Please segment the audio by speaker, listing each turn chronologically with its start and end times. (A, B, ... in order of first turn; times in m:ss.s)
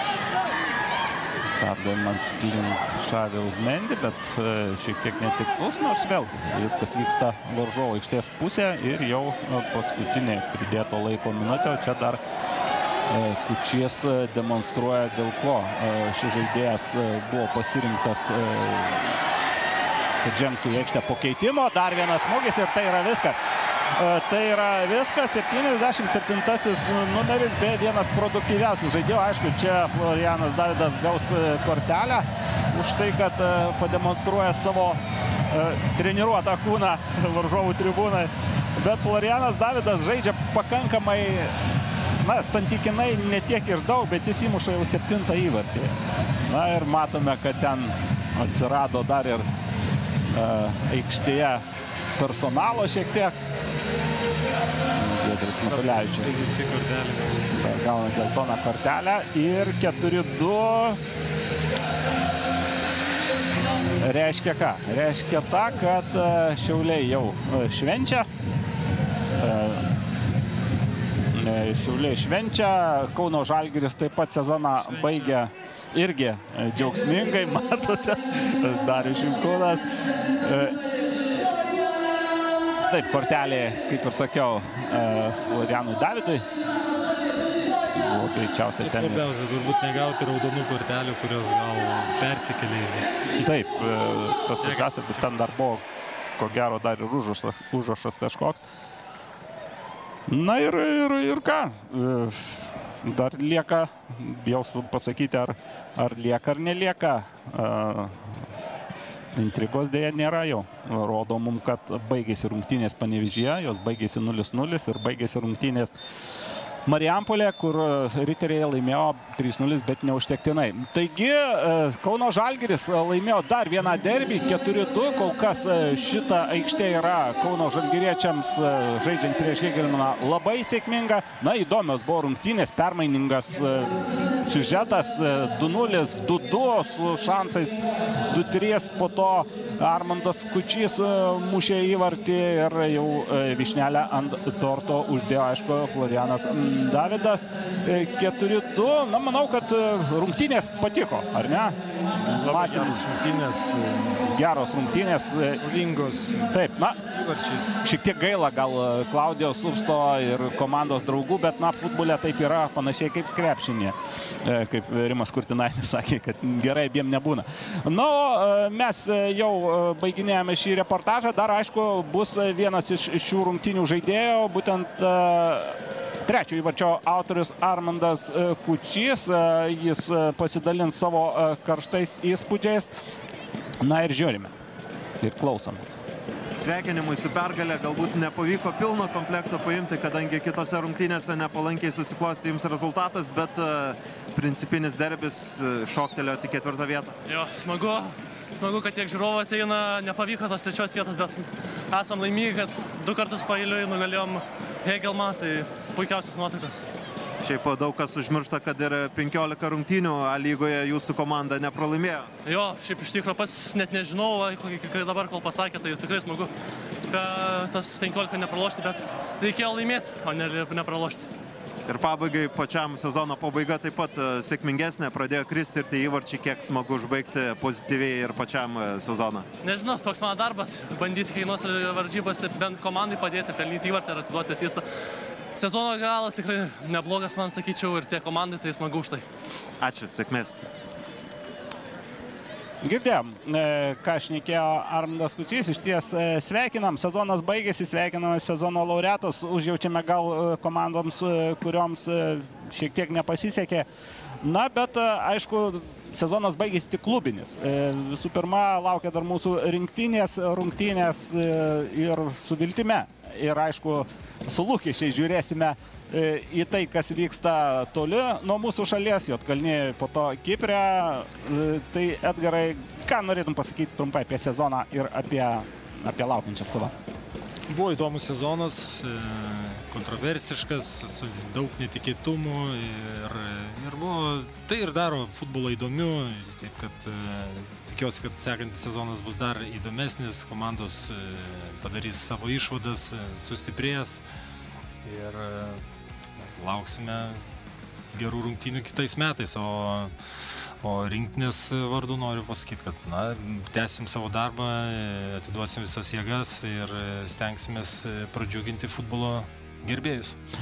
0:01.6-0:12.2 A
0:13.1-0:19.2 A
0:20.2-0:23.4 A
0:23.9-0:41.5 A
0:42.2-0:49.4 A
0:50.3-0:51.6 A
0:52.2-0:53.3 A
0:54.9-0:56.5 A
0:55.6-0:57.5 B
0:57.6-1:01.0 A
1:04.0-1:08.3 A
1:09.4-1:09.8 A
1:11.3-1:19.8 A
1:14.8-1:15.4 B
1:20.4-1:20.8 A
1:22.8-1:26.4 A
1:27.9-1:29.2 A
1:28.8-1:33.3 B
1:33.4-1:35.8 A
1:34.6-1:35.3 B
1:36.4-1:38.6 A
1:40.3-1:48.4 A
1:49.3-1:55.9 A
1:56.8-2:33.1 A
2:32.1-2:34.2 B
2:34.2-2:35.6 A
2:35.6-2:37.8 B
2:36.5-2:37.0 A
2:37.8-3:02.9 A
3:03.8-3:04.5 A
3:05.2-3:05.8 A
3:06.6-3:17.2 C
3:17.2-3:26.8 D
3:27.4-3:32.3 C
3:32.4-3:36.5 D
3:37.1-3:41.3 D
3:41.8-3:49.5 C
3:49.6-3:59.2 D
3:59.8-4:00.6 C
4:02.8-4:13.9 A
4:14.4-4:37.0 A
4:37.7-4:54.2 B
4:55.0-4:55.8 B
4:56.4-4:57.4 B
4:58.1-5:10.4 B